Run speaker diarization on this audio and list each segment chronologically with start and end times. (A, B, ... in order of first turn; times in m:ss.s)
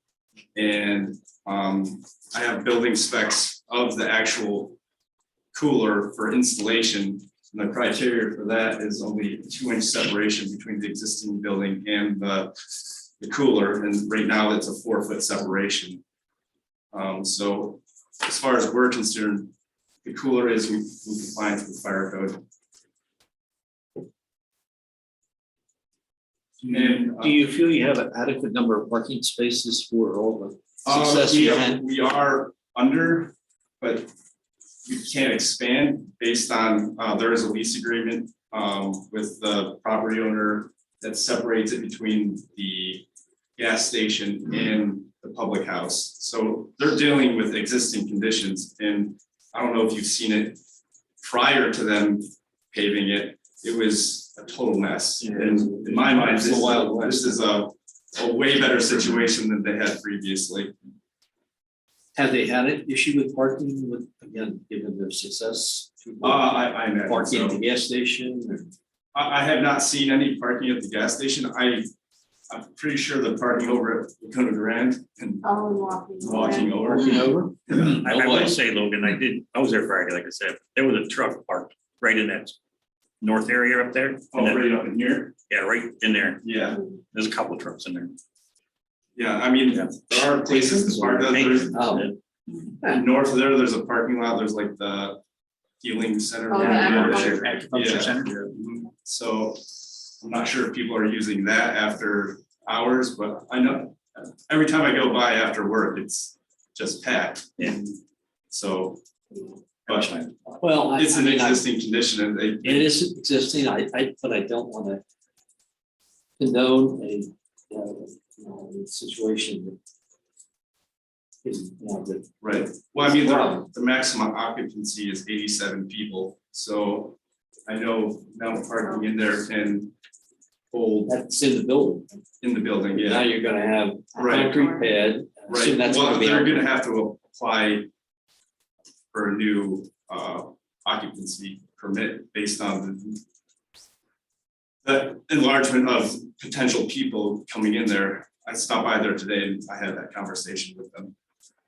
0:00.6-0:04.8 A
0:05.5-0:12.5 A
0:13.2-0:16.0 A
0:16.9-0:19.5 A
0:20.0-0:22.4 A
0:26.6-0:31.8 B
0:26.7-0:27.4 A
0:30.9-0:34.1 A
0:34.8-0:43.0 A
0:43.6-0:50.6 A
0:51.2-1:00.7 A
0:55.2-0:57.4 B
1:02.2-1:08.7 B
1:06.2-1:07.6 A
1:09.1-1:11.9 A
1:12.5-1:15.4 A
1:15.4-1:17.2 C
1:16.2-1:18.0 A
1:16.9-1:18.5 B
1:17.8-1:22.6 D
1:23.2-1:24.6 D
1:24.3-1:25.4 A
1:25.5-1:26.4 D
1:26.4-1:26.8 A
1:27.1-1:28.2 D
1:29.2-1:31.8 A
1:31.3-1:32.1 D
1:31.7-1:32.1 B
1:32.8-1:35.2 A
1:35.8-1:39.6 A
1:36.5-1:37.5 C
1:36.6-1:38.4 D
1:40.2-1:48.0 A
1:48.5-1:49.0 A
1:49.3-1:49.6 C
1:49.9-1:50.3 A
1:49.9-1:50.3 D
1:50.6-1:51.6 B
1:50.9-1:53.0 A
1:52.6-1:55.0 B
1:56.4-1:59.8 B
2:01.4-2:03.6 B
2:02.4-2:09.9 A
2:08.8-2:09.1 C
2:10.7-2:11.2 A
2:11.1-2:12.2 B
2:12.4-2:13.3 A
2:12.9-2:16.6 B
2:14.1-2:15.0 C
2:14.2-2:14.6 A
2:15.5-2:17.9 A
2:19.1-2:23.2 A
2:24.8-2:31.1 A